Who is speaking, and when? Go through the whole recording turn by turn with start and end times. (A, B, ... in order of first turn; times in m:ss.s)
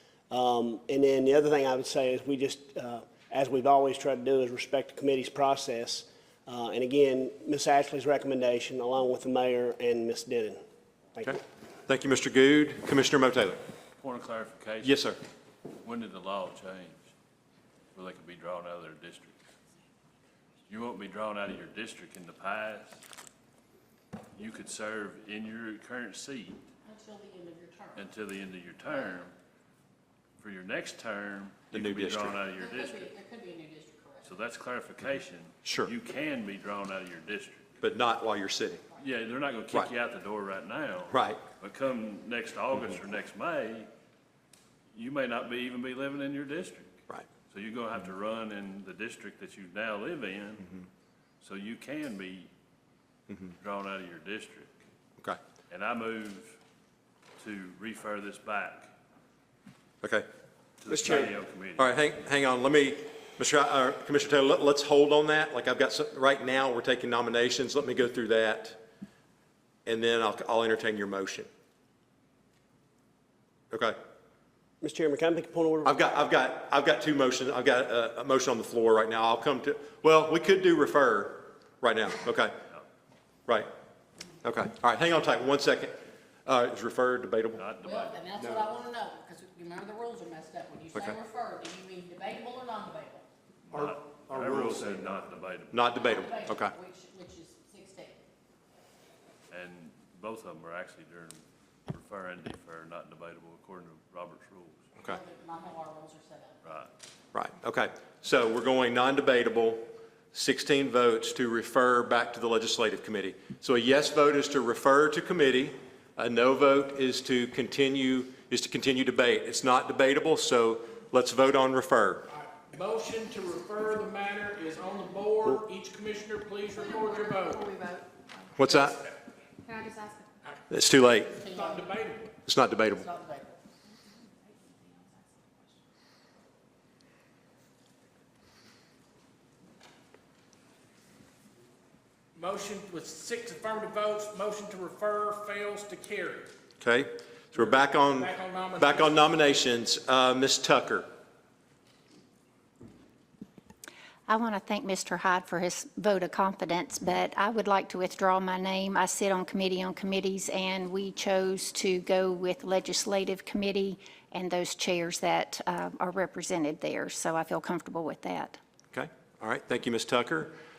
0:00.3-0:10.6 A
0:11.2-0:13.6 B
0:14.0-0:15.1 C
0:14.8-0:15.2 B
0:15.8-0:17.0 C
0:17.9-0:19.4 C
0:20.7-0:23.0 C
0:24.4-0:26.6 C
0:26.8-0:28.1 D
0:28.0-0:29.3 C
0:30.4-0:33.1 C
0:31.7-0:32.4 B
0:32.5-0:34.4 D
0:34.2-0:37.6 C
0:35.6-0:35.9 B
0:37.8-0:38.8 B
0:39.0-0:43.9 C
0:41.1-0:41.4 B
0:44.9-0:46.9 C
0:47.5-0:50.7 C
0:51.4-0:52.5 C
0:53.6-0:54.7 C
0:55.7-0:56.6 C
0:57.4-0:58.9 C
1:00.8-1:02.0 C
1:00.9-1:08.8 B
1:09.9-1:11.5 B
1:14.9-1:15.9 A
1:15.8-1:22.6 B
1:24.4-1:27.7 B
1:27.6-1:28.6 C
1:27.8-1:33.3 D
1:33.7-1:36.1 C
1:33.8-1:35.2 B
1:35.7-1:36.7 B
1:36.0-1:38.2 D
1:39.5-1:44.9 C
1:45.1-1:46.6 D
1:46.6-1:46.9 C
1:47.3-2:02.2 B
2:02.3-2:07.7 E
2:06.7-2:08.8 F
2:08.6-2:09.0 B
2:09.6-2:10.4 F
2:10.4-2:12.4 E
2:10.7-2:11.3 B
2:11.4-2:11.9 D
2:12.4-2:13.1 B
2:12.9-2:13.6 D
2:14.1-2:15.8 F
2:22.4-2:26.5 E
2:26.8-2:31.1 B
2:27.6-2:29.2 E
2:34.3-2:48.6 G
2:48.9-2:50.5 B